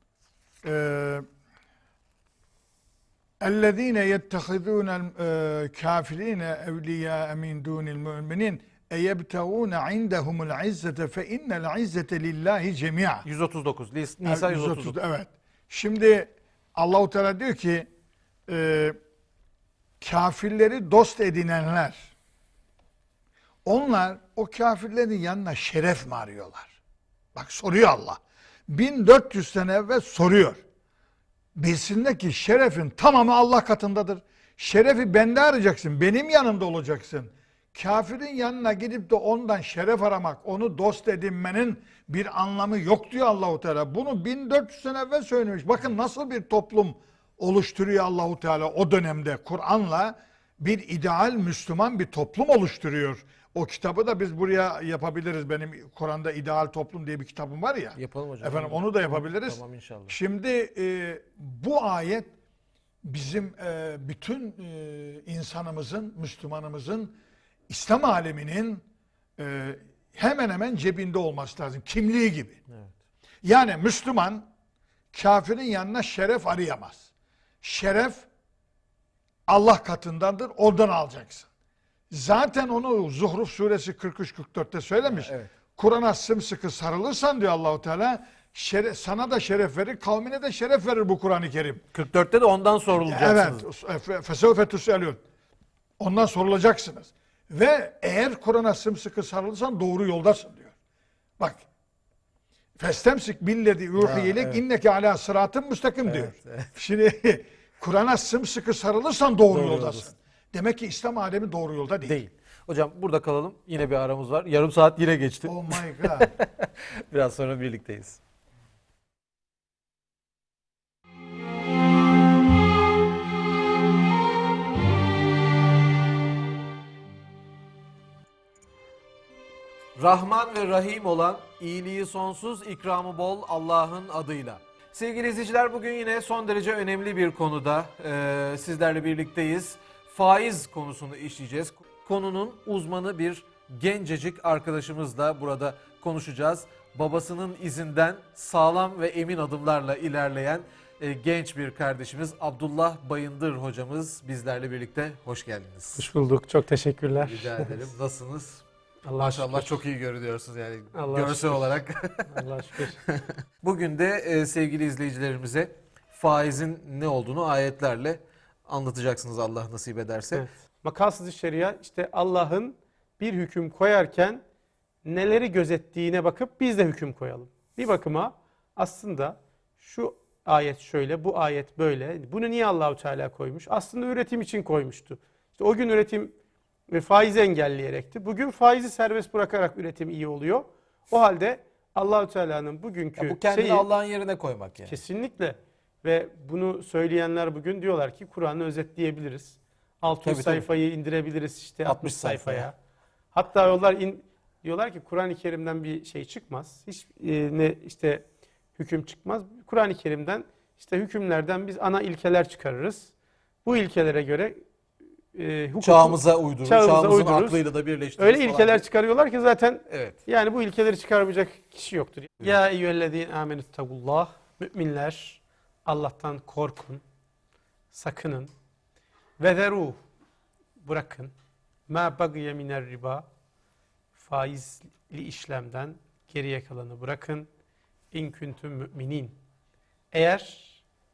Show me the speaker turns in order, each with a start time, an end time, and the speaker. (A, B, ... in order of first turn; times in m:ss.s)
0:00.6-0:01.2 A
0:03.4-0:13.3 A
0:13.2-0:15.0 B
0:14.2-0:17.9 A
0:18.5-0:19.0 A
0:20.0-0:22.1 A
0:23.6-0:26.8 A
0:27.4-0:30.6 A
0:31.6-1:02.3 A
0:58.0-1:00.2 B
1:03.0-1:07.2 A
1:07.7-1:08.8 A
1:09.4-1:12.6 A
1:13.4-1:14.5 A
1:15.1-1:17.0 A
1:17.6-1:18.3 A
1:19.5-1:21.5 A
1:22.1-1:31.8 A
1:25.0-1:25.5 B
1:31.9-1:33.7 B
1:33.0-1:35.2 A
1:36.0-1:40.7 A
1:41.4-1:41.6 A
1:42.8-1:52.2 A
1:44.0-1:44.6 B
1:46.0-1:46.7 B
1:49.5-1:50.1 B
1:52.0-1:58.2 B
1:55.5-1:56.3 A
2:10.0-2:36.0 B
2:36.0-2:37.9 C
2:37.2-2:42.4 B
2:39.1-2:39.8 C
2:41.0-2:41.7 C
2:42.3-2:43.0 C
2:43.0-2:50.5 B
2:50.3-2:54.4 C
2:55.0-3:06.3 C
3:06.9-3:13.9 C
3:13.2-3:15.0 B
3:14.9-3:22.7 C
3:20.2-3:20.7 B
3:21.8-3:22.7 B
3:23.3-3:33.1 C
3:33.6-3:34.6 C
3:35.3-3:37.6 C
3:35.8-3:38.8 B
3:38.2-3:47.0 C
3:39.9-3:40.2 B
3:47.9-3:48.5 C
3:49.4-3:50.0 C
3:50.8-3:51.3 C
3:51.9-3:53.3 C
3:54.2-3:57.5 C
3:58.1-3:59.4 C
4:00.1-4:00.8 C